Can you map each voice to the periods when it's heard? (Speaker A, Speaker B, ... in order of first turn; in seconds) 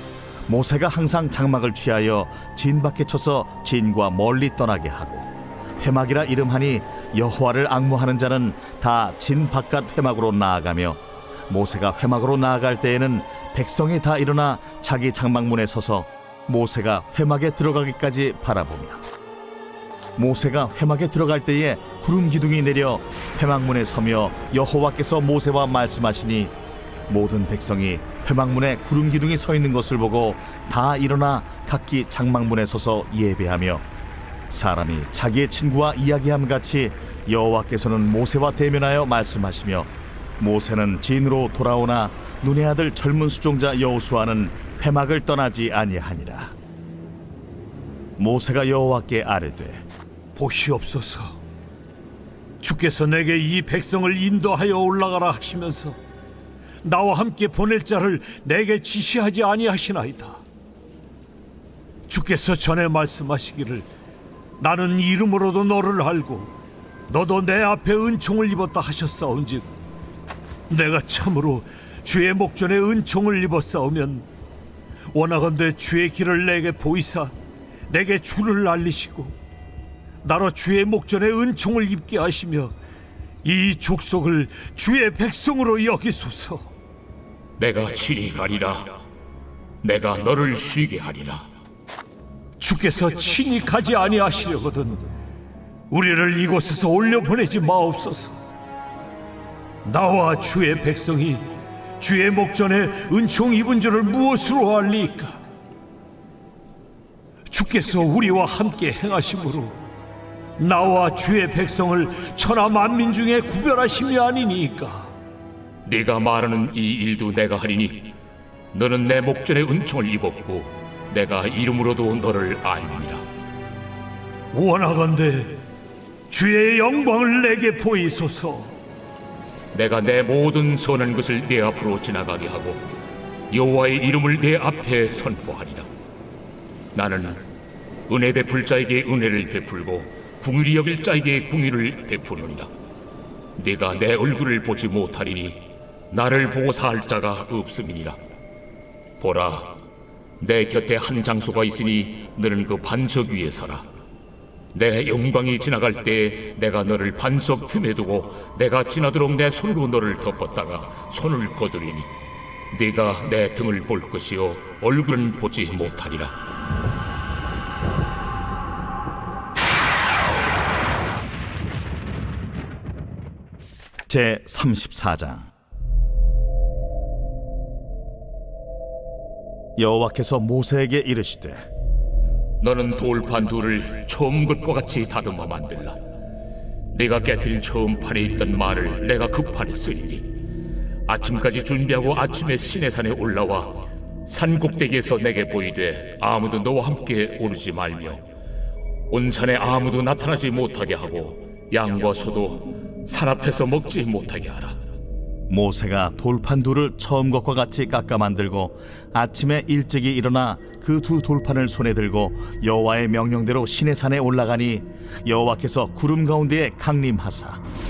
Speaker A: 0.5-19.0, 20.1-26.5, 27.1-33.8, 34.5-46.5, 48.2-49.8, 174.1-175.5, 179.8-181.6, 205.5-217.6
Speaker B: 50.4-51.4, 52.6-56.0, 56.8-60.4, 62.1-63.9, 64.6-66.5, 67.1-69.7, 70.7-74.3, 75.1-77.3, 77.9-79.3, 80.2-82.7, 83.4-86.7, 92.6-95.0, 95.9-98.4, 99.8-105.4, 107.5-109.7, 110.6-115.1, 124.5-125.6, 126.3-128.7
Speaker C: 87.6-88.9, 89.8-91.4, 115.8-118.1, 118.7-123.2, 129.7-132.8, 133.5-135.9, 136.9-137.4, 138.1-142.7, 143.6-148.2, 149.2-149.8, 150.4-153.8, 154.7-162.1, 162.7-166.3, 182.6-186.0, 186.9-190.3, 191.1-198.2, 199.1-204.8